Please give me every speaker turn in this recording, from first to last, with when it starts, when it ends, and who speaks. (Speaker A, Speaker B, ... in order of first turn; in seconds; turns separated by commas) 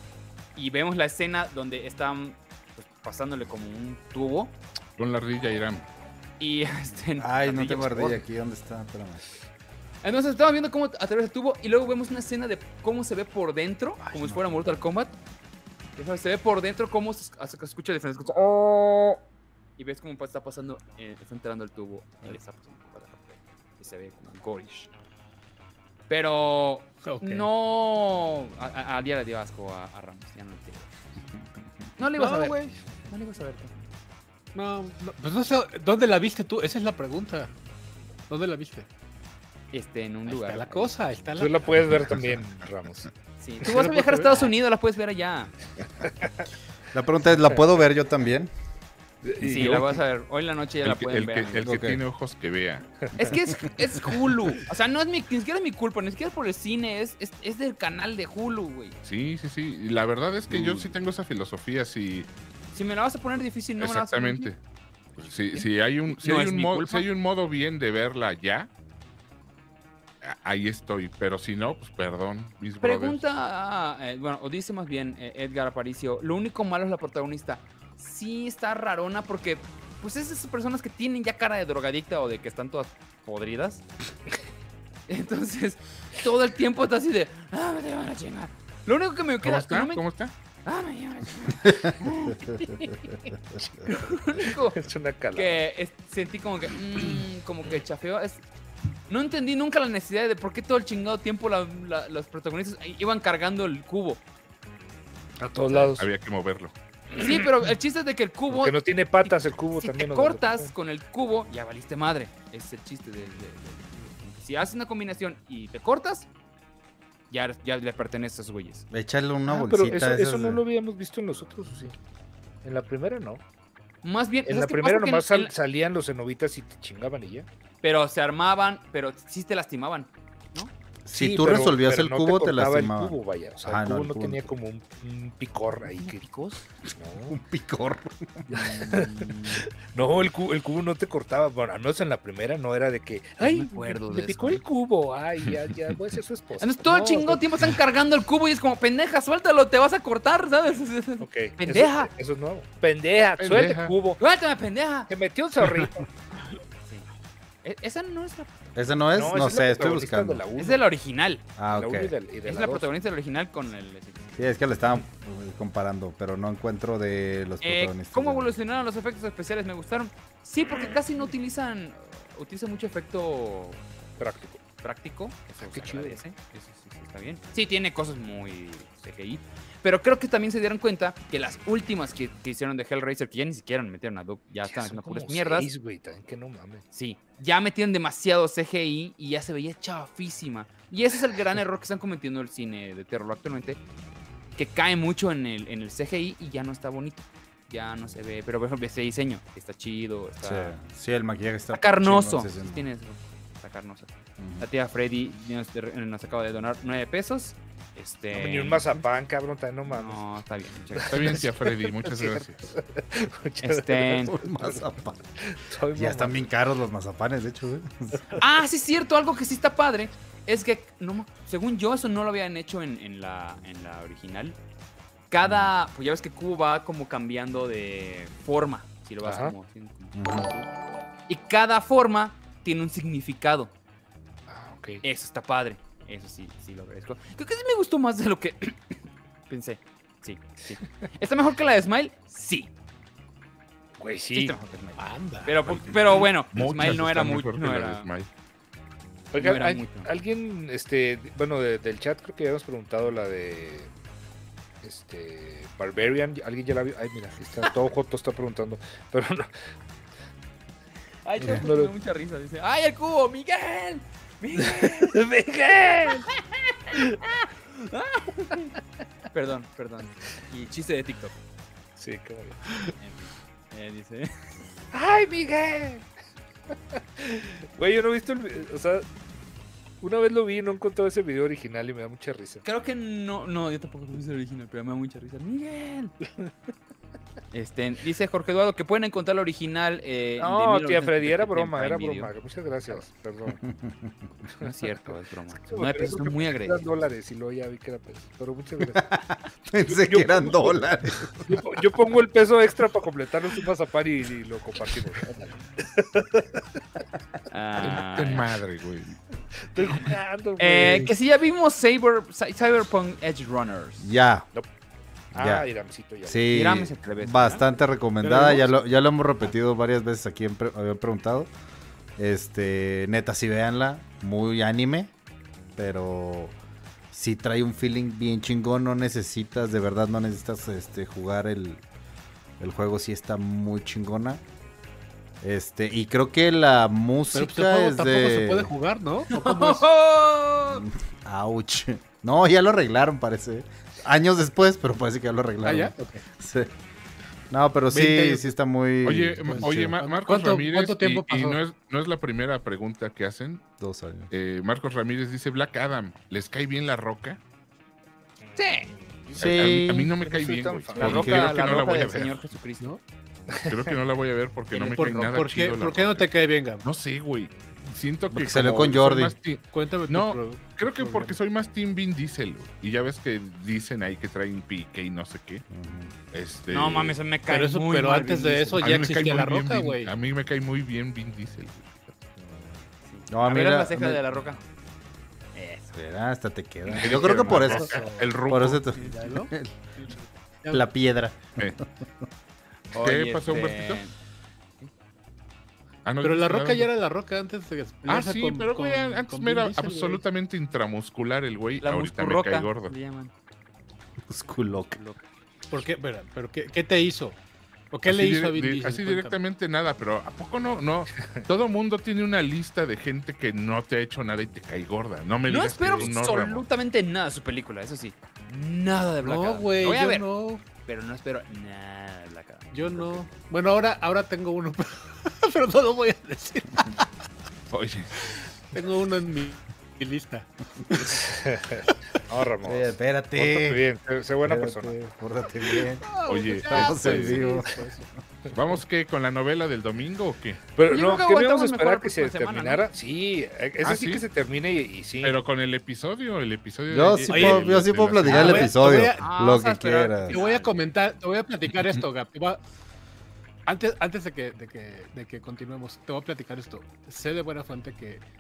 Speaker A: 0.6-4.5, Speaker B: 5.0-5.8, Speaker A: 6.4-8.2, Speaker C: 7.2-9.2, Speaker A: 10.0-15.1, Speaker C: 14.0-14.8, Speaker A: 15.9-19.2, Speaker A: 19.8-24.9, Speaker A: 26.1-30.9, Speaker D: 27.0-27.5, Speaker A: 32.0-32.6, Speaker D: 32.1-32.8, Speaker A: 33.1-33.8, Speaker D: 34.5-37.5, Speaker D: 38.3-38.9, Speaker A: 39.7-40.9, Speaker D: 40.3-41.8, Speaker E: 41.4-43.1, Speaker A: 43.4-45.5, Speaker D: 43.7-44.5, Speaker C: 46.9-48.5, Speaker E: 49.2-50.0, Speaker A: 49.4-51.7, Speaker B: 50.8-52.9, Speaker C: 51.6-52.0, Speaker A: 53.1-59.0, Speaker B: 59.0-62.3, Speaker C: 60.5-60.9, Speaker A: 62.7-64.5, Speaker B: 63.8-64.6, Speaker B: 65.2-68.7, Speaker A: 65.5-67.1, Speaker B: 70.2-73.2, Speaker A: 72.8-83.8, Speaker A: 85.1-90.0, Speaker B: 89.4-90.3, Speaker A: 90.6-92.5, Speaker E: 93.8-95.6, Speaker A: 94.0-94.8, Speaker A: 95.3-98.4, Speaker A: 99.1-104.2, Speaker E: 105.4-106.0, Speaker B: 106.0-106.7, Speaker A: 107.2-116.3, Speaker E: 108.5-110.7, Speaker A: 117.3-118.8, Speaker C: 118.9-120.6, Speaker E: 119.5-121.9, Speaker E: 122.6-123.4, Speaker A: 124.0-125.5, Speaker E: 124.4-127.5, Speaker A: 127.8-130.7, Speaker C: 131.1-134.5, Speaker E: 131.1-136.3, Speaker A: 136.0-136.6, Speaker E: 136.8-137.4, Speaker C: 137.3-138.6, Speaker E: 138.5-147.4, Speaker A: 138.5-139.6, Speaker A: 143.4-144.6, Speaker A: 146.6-152.1, Speaker E: 151.2-154.2, Speaker B: 153.4-153.9, Speaker A: 154.2-155.1, Speaker E: 155.1-156.1, Speaker A: 157.6-158.8, Speaker C: 158.7-160.4, Speaker E: 159.1-160.8, Speaker A: 160.6-161.4, Speaker C: 161.6-162.1, Speaker E: 161.7-162.9, Speaker A: 162.4-164.6, Speaker C: 164.3-168.5, Speaker A: 167.6-173.8, Speaker E: 174.2-174.6, Speaker A: 174.8-185.7, Speaker E: 175.5-176.2, Speaker E: 184.6-186.8, Speaker A: 186.9-193.8, Speaker A: 194.6-200.8, Speaker C: 200.4-202.8, Speaker A: 201.7-208.9, Speaker C: 204.4-204.7, Speaker E: 208.3-210.2, Speaker A: 209.9-211.4, Speaker E: 210.9-214.8, Speaker B: 211.1-212.8, Speaker A: 213.6-214.3, Speaker C: 214.2-215.2, Speaker E: 215.4-216.5, Speaker C: 215.9-218.2, Speaker A: 218.4-224.6, Speaker A: 225.3-230.7, Speaker C: 225.4-225.7, Speaker E: 229.2-229.5, Speaker C: 230.1-230.5, Speaker A: 231.3-233.7, Speaker E: 234.5-235.0, Speaker A: 235.0-238.8, Speaker A: 239.5-242.7, Speaker E: 244.0-244.6, Speaker A: 244.3-248.1, Speaker D: 245.0-246.0, Speaker B: 246.5-248.3, Speaker E: 249.3-253.9, Speaker A: 249.3-250.1, Speaker E: 254.8-259.5, Speaker A: 261.2-265.2, Speaker E: 261.4-261.9, Speaker E: 264.6-266.3, Speaker A: 266.3-266.6, Speaker E: 266.9-267.4, Speaker A: 267.7-268.8, Speaker A: 269.3-271.3, Speaker E: 272.0-272.9, Speaker A: 273.0-274.3, Speaker E: 274.9-276.1, Speaker E: 276.9-279.1, Speaker E: 280.0-282.6, Speaker A: 282.6-286.1, Speaker A: 287.5-292.3, Speaker E: 290.4-293.6, Speaker C: 293.5-294.1, Speaker A: 294.6-296.8, Speaker E: 295.7-299.0, Speaker C: 298.9-301.6, Speaker E: 299.9-300.8, Speaker E: 301.4-306.6, Speaker A: 307.5-308.5, Speaker B: 307.8-309.1, Speaker E: 309.7-311.1, Speaker A: 310.6-314.1, Speaker C: 314.0-314.5, Speaker C: 315.3-315.7, Speaker E: 315.3-316.6, Speaker C: 316.2-321.5, Speaker A: 316.5-317.6, Speaker D: 318.3-318.6, Speaker C: 322.2-325.1, Speaker C: 325.8-326.6, Speaker C: 327.1-331.8, Speaker C: 332.6-334.4, Speaker C: 335.4-338.7, Speaker D: 337.3-339.9, Speaker A: 339.3-340.8, Speaker C: 340.7-346.7, Speaker D: 345.6-346.2, Speaker C: 347.5-350.0, Speaker D: 347.9-348.5, Speaker B: 349.0-353.6, Speaker D: 349.5-351.6, Speaker C: 353.8-354.3, Speaker B: 354.3-357.4, Speaker E: 358.4-361.5, Speaker A: 358.6-358.9, Speaker B: 359.4-362.4, Speaker C: 359.4-360.1, Speaker A: 360.9-362.9, Speaker C: 361.0-361.8, Speaker E: 363.5-363.8, Speaker B: 363.6-366.3, Speaker A: 364.7-365.0, Speaker D: 364.9-366.8, Speaker B: 366.8-375.6, Speaker C: 368.3-369.4, Speaker D: 369.7-371.4, Speaker C: 375.7-376.1, Speaker B: 376.3-377.2, Speaker A: 376.7-378.9, Speaker D: 377.5-380.1, Speaker B: 378.8-382.4, Speaker A: 383.1-384.6, Speaker C: 383.3-384.4, Speaker A: 385.5-385.9, Speaker C: 385.9-389.8, Speaker B: 386.9-388.8, Speaker D: 387.4-388.4, Speaker D: 388.9-390.0, Speaker C: 390.7-391.9, Speaker A: 392.9-394.1, Speaker B: 392.9-394.0, Speaker B: 396.0-396.9, Speaker D: 396.2-400.2, Speaker B: 398.1-402.9, Speaker A: 401.8-403.3, Speaker C: 404.3-405.0, Speaker A: 404.9-405.2, Speaker D: 405.7-407.4, Speaker D: 407.9-409.4, Speaker B: 408.1-416.6, Speaker A: 415.5-423.3, Speaker D: 419.2-420.6, Speaker D: 422.7-427.1, Speaker B: 427.7-428.1, Speaker D: 428.7-431.2, Speaker E: 431.0-434.9, Speaker C: 432.6-433.8, Speaker C: 434.4-436.1, Speaker D: 435.8-438.1, Speaker B: 436.3-437.5, Speaker C: 436.7-437.8, Speaker B: 438.5-440.6, Speaker E: 440.8-445.4, Speaker A: 440.9-442.9, Speaker B: 443.8-444.2, Speaker B: 445.2-448.7, Speaker C: 446.9-450.4, Speaker D: 447.3-447.7, Speaker D: 448.2-449.4, Speaker A: 448.3-450.8, Speaker D: 450.3-452.6, Speaker D: 453.6-458.2